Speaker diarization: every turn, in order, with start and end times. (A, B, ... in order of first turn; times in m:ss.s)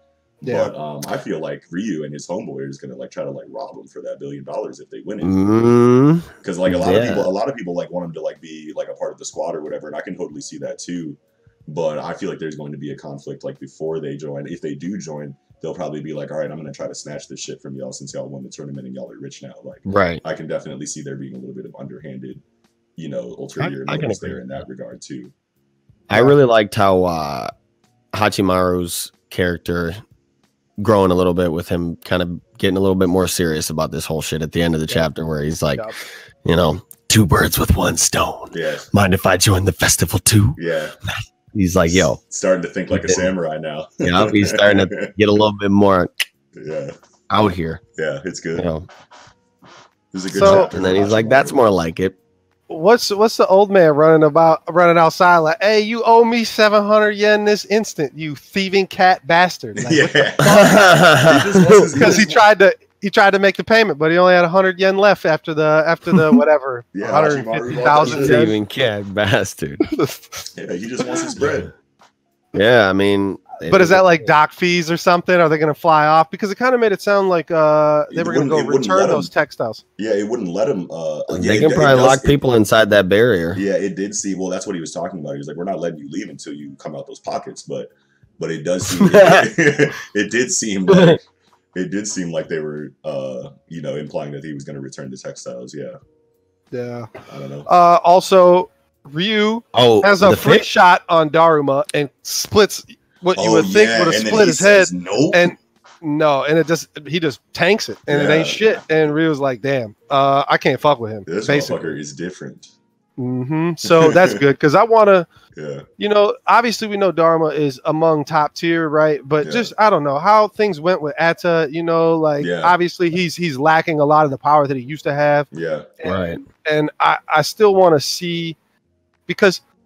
0:00.4-0:05.6 A
0:00.4-0:00.7 B
0:05.2-0:07.3 C
0:06.4-0:22.4 A
0:19.8-0:20.2 C
0:23.0-0:25.3 A
0:23.6-0:24.6 C
0:26.1-0:27.5 C
0:28.1-0:30.0 C
0:30.8-0:35.9 C
0:36.4-0:40.6 C
0:38.5-0:38.9 A
0:40.6-0:41.0 A
0:41.5-0:42.2 C
0:41.8-0:45.1 A
0:42.9-0:43.3 C
0:44.0-0:46.1 C
0:46.5-0:46.9 A
0:47.3-0:47.8 C
0:48.0-0:48.7 A
0:48.5-0:48.9 C
0:50.1-0:51.6 A
0:50.3-0:50.7 B
0:50.4-0:52.2 C
0:52.7-1:00.6 B
0:59.8-1:02.4 A
1:00.4-1:02.0 C
1:02.0-1:08.6 B
1:06.9-1:08.4 A
1:08.0-1:09.8 C
1:10.6-1:11.7 A
1:11.4-1:11.7 C
1:12.5-1:14.2 C
1:13.6-1:19.8 B
1:18.1-1:19.3 A
1:20.0-1:22.4 A
1:21.3-1:23.6 C
1:23.5-1:31.2 A
1:28.9-1:29.5 C
1:30.9-1:31.2 C
1:31.7-1:36.0 A
1:36.7-1:37.1 B
1:37.3-1:37.7 A
1:37.6-1:52.0 B
1:39.7-1:40.7 C
1:43.3-1:45.5 A
1:48.1-1:48.8 A
1:51.3-1:52.7 A
1:53.2-1:55.3 B
1:53.8-1:54.4 A
1:55.5-1:55.8 A
1:56.0-2:05.5 B
1:59.4-1:59.7 A
2:02.4-2:02.7 A
2:05.5-2:05.9 A
2:06.0-2:08.6 B
2:06.0-2:06.4 C
2:09.3-2:09.6 B